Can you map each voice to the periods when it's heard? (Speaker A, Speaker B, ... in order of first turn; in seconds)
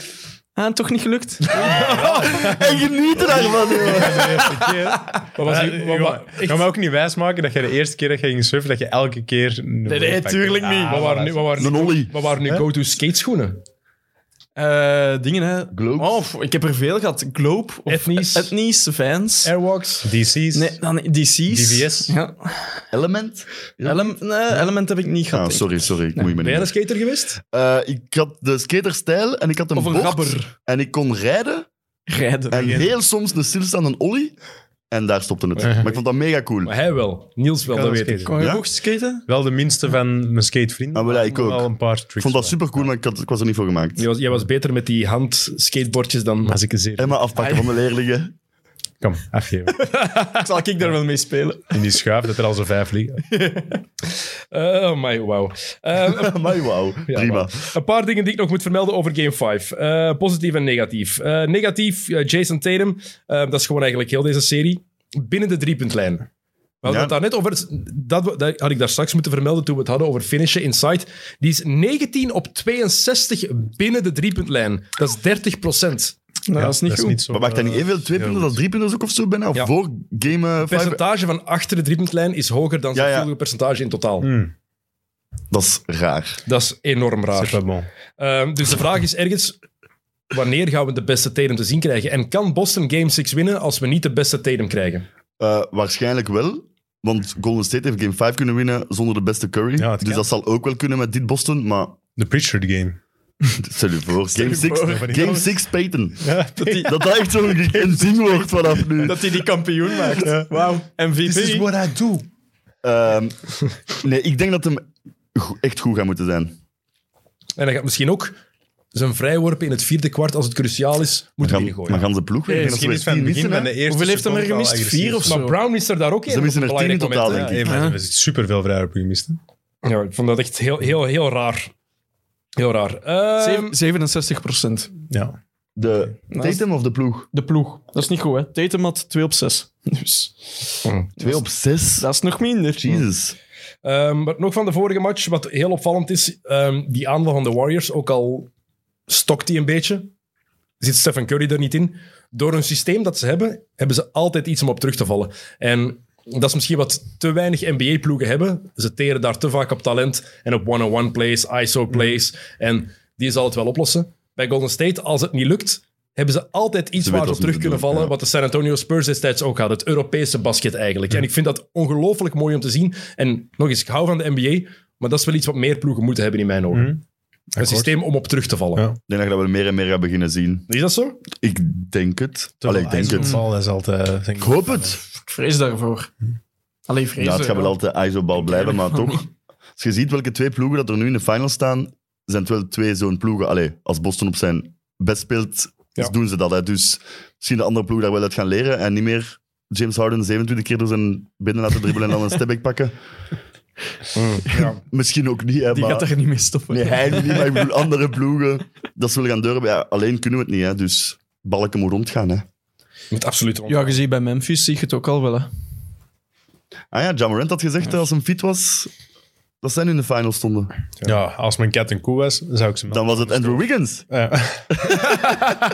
Speaker A: 0.6-1.7, 3.9-5.0, 9.9-11.1, 14.6-19.5, 20.5-22.8, 23.8-26.3, 29.7-30.5, 32.1-32.8, 38.3-39.2, 47.4-47.7, 50.3-51.8, 53.3-53.8, 76.5-77.2, 104.4-105.6, 106.6-106.9, 108.9-111.7, 122.5-122.8, 123.9-125.6, 127.7-128.0, 133.4-134.9, 136.3-136.6, 137.3-141.4, 142.0-143.0, 183.1-183.4, 185.3-186.1, 186.9-187.8, 188.5-189.0, 205.7-207.6, 213.7-215.5
Speaker B: 1.6-2.6, 5.3-6.7, 10.9-13.6, 17.9-18.5, 19.4-20.1, 26.4-27.4, 35.6-36.0, 36.6-38.3, 44.0-46.6, 50.0-50.4, 54.5-66.3, 66.8-76.2, 80.6-84.3, 86.5-87.6, 88.2-89.6, 90.3-95.0, 117.6-118.4, 118.9-122.1, 125.3-127.6, 129.8-131.7, 132.6-133.8, 140.8-141.1, 143.8-148.5, 149.1-150.1, 150.8-177.0, 177.6-178.9, 180.7-181.2, 204.1-204.8, 213.1-214.0
Speaker C: 1.7-11.7, 20.0-20.8, 21.5-22.2, 32.6-32.9, 35.6-35.9, 37.7-38.4, 39.3-42.9, 46.5-47.2, 49.0-49.8, 51.7-53.3, 76.5-78.5, 84.2-84.5, 87.3-87.9, 99.8-100.3, 102.2-103.0, 104.6-105.5, 106.2-108.2, 110.2-110.5, 111.3-112.2, 122.5-125.4, 127.3-129.4, 135.1-135.4, 176.7-177.0, 177.5-177.9, 182.6-185.0, 221.0-224.8
Speaker D: 2.0-4.5, 11.6-12.2, 15.7-16.2, 22.9-24.2, 25.3-26.7, 27.4-31.7, 32.5-34.4, 34.9-36.7, 38.4-38.6, 40.9-44.0, 47.0-48.3, 56.1-57.6, 66.9-67.1, 77.3-81.0, 83.0-83.3, 85.5-86.4, 95.4-102.0, 103.6-106.3, 106.8-109.2, 112.8-114.8, 115.3-116.6, 121.4-123.7, 126.3-127.8, 135.8-137.3, 141.2-142.1, 142.8-143.4, 167.0-168.1, 179.1-180.7, 181.3-183.4, 184.4-185.0, 187.2-202.9, 204.5-206.1, 206.7-212.5, 216.9-218.9, 219.6-220.7, 222.9-224.1, 224.7-225.4